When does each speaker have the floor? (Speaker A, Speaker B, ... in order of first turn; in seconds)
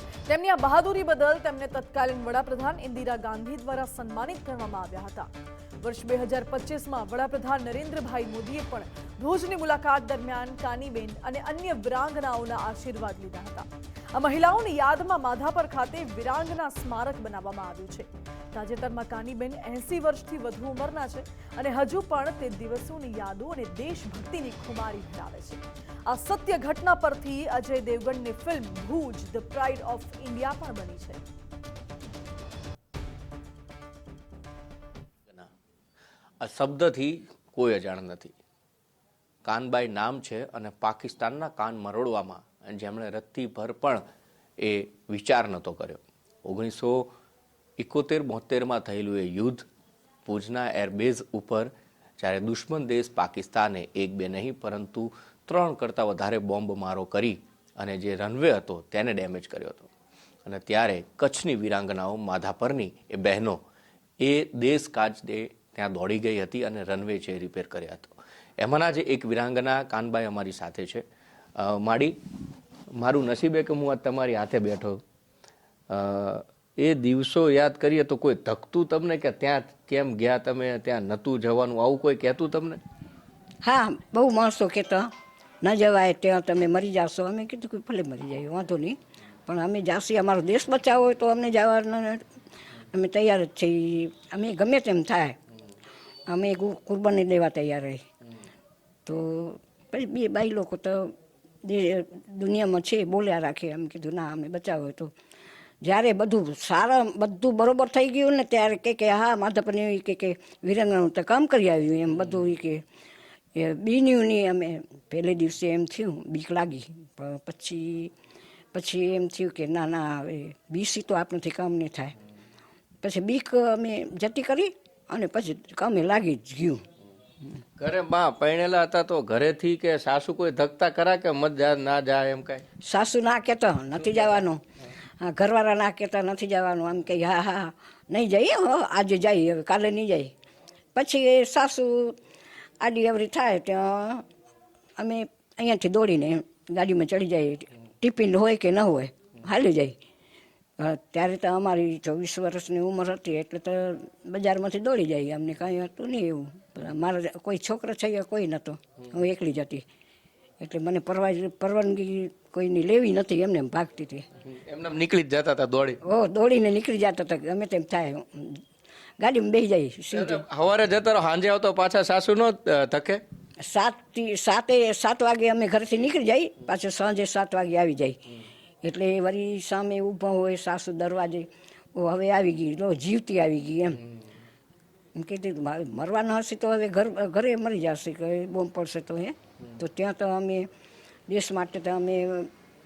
Speaker A: 0.2-5.3, 5.8-31.2
Speaker B: 36.4-38.3, 39.4-44.0, 44.6-47.1, 47.8-49.6, 50.2-59.9, 60.4-63.6, 64.2-71.0, 71.6-72.2, 72.9-75.0, 75.9-82.8, 127.8-132.6, 164.4-166.0, 170.1-173.2
Speaker C: 83.6-85.1, 85.6-92.2, 92.9-95.4, 96.3-98.0, 99.0-105.1, 105.8-112.8, 113.5-118.1, 118.7-122.1, 123.0-126.8, 132.8-134.6, 135.2-140.3, 140.9-142.2, 142.8-144.2, 145.0-150.0, 150.8-159.8, 160.6-164.2, 166.0-168.6, 169.2-170.4, 173.6-178.3, 178.8-184.0, 185.2-190.7, 191.3-192.5